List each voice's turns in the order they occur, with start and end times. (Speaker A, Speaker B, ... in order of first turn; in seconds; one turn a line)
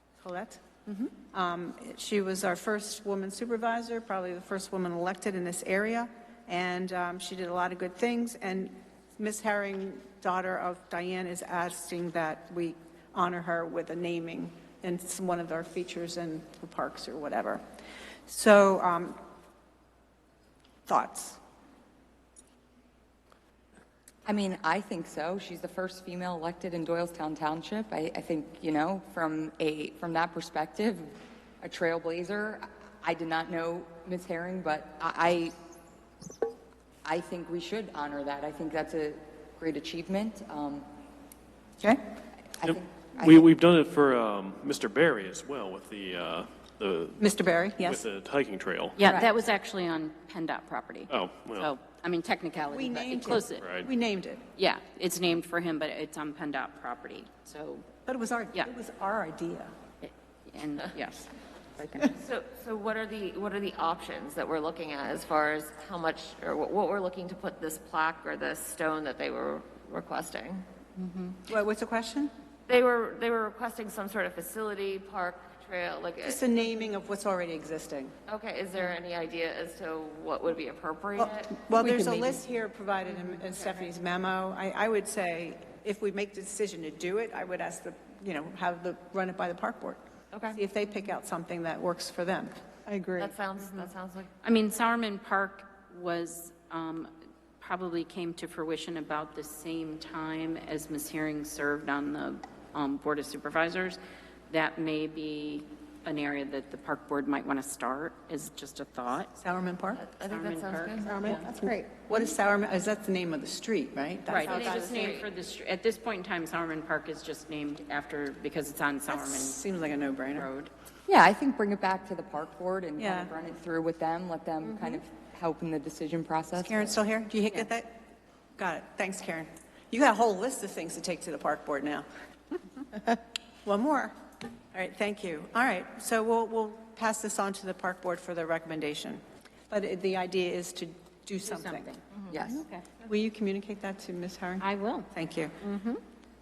Speaker A: 0.2-0.6
Speaker A: 1.1-17.6
Speaker A: 18.3-19.2
Speaker A: 20.9-21.4
Speaker B: 24.2-35.5
Speaker B: 37.0-40.9
Speaker B: 42.6-43.5
Speaker C: 42.6-47.3
Speaker A: 47.2-48.0
Speaker C: 47.8-49.0
Speaker D: 49.0-53.6
Speaker B: 49.0-49.3
Speaker C: 51.1-51.7
Speaker A: 52.7-54.4
Speaker C: 53.6-53.9
Speaker D: 54.5-57.9
Speaker A: 58.1-59.7
Speaker D: 60.0-62.2
Speaker E: 62.1-70.6
Speaker D: 71.0-71.4
Speaker A: 71.5-72.3
Speaker E: 72.7-76.4
Speaker A: 76.2-78.1
Speaker E: 78.3-81.7
Speaker A: 81.2-90.0
Speaker E: 90.3-90.6
Speaker A: 90.5-93.3
Speaker E: 93.2-94.3
Speaker D: 94.4-109.3
Speaker A: 109.4-110.0
Speaker E: 109.9-111.4
Speaker D: 110.3-111.5
Speaker A: 111.1-115.1
Speaker D: 114.3-119.6
Speaker E: 114.4-115.3
Speaker A: 119.1-120.5
Speaker D: 120.3-120.7
Speaker B: 121.0-126.9
Speaker A: 123.0-123.3
Speaker A: 126.6-128.0
Speaker A: 128.6-132.1
Speaker A: 132.9-134.1
Speaker A: 134.7-142.0
Speaker D: 141.4-142.9
Speaker B: 142.3-142.6
Speaker A: 143.0-145.5
Speaker D: 144.6-146.0